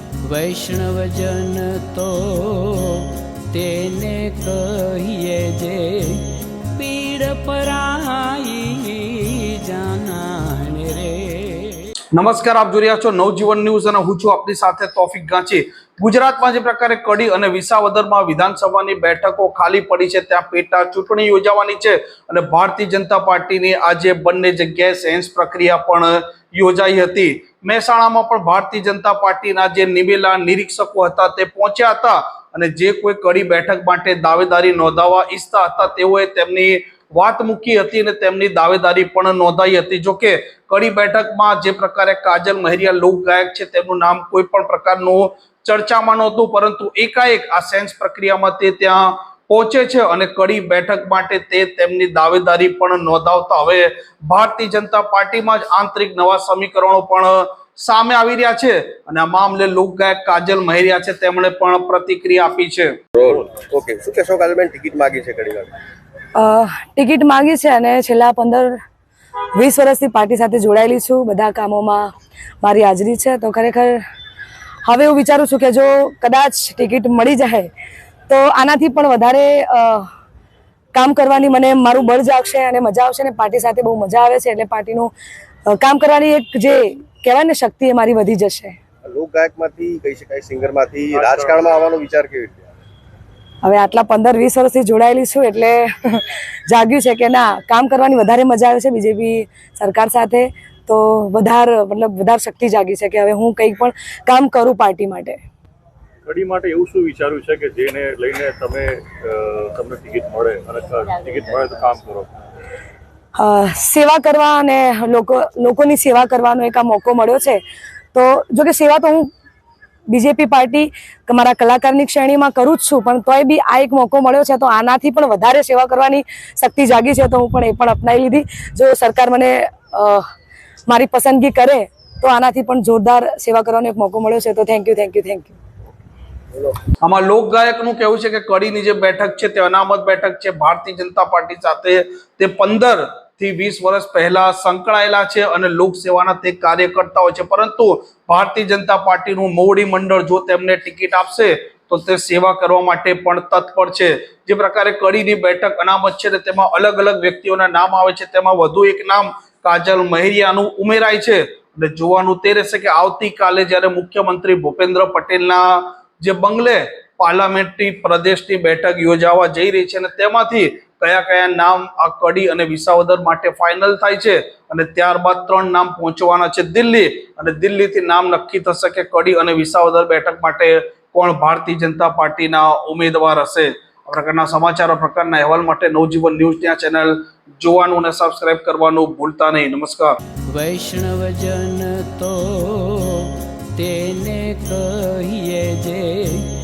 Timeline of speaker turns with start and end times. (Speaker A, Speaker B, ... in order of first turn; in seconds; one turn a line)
Speaker A: 0.2-6.2
Speaker A: 6.8-11.9
Speaker B: 12.1-63.0
Speaker C: 63.1-65.7
Speaker D: 63.2-63.6
Speaker E: 66.3-68.8
Speaker E: 69.5-72.1
Speaker E: 72.6-74.0
Speaker E: 74.8-77.7
Speaker E: 78.3-80.1
Speaker E: 80.9-85.1
Speaker E: 85.7-88.8
Speaker C: 89.0-92.7
Speaker D: 91.1-91.8
Speaker E: 93.6-105.4
Speaker D: 106.2-112.3
Speaker E: 113.4-117.6
Speaker E: 118.1-119.3
Speaker E: 120.1-130.2
Speaker E: 130.9-135.5
Speaker B: 137.0-190.2
Speaker A: 190.5-196.4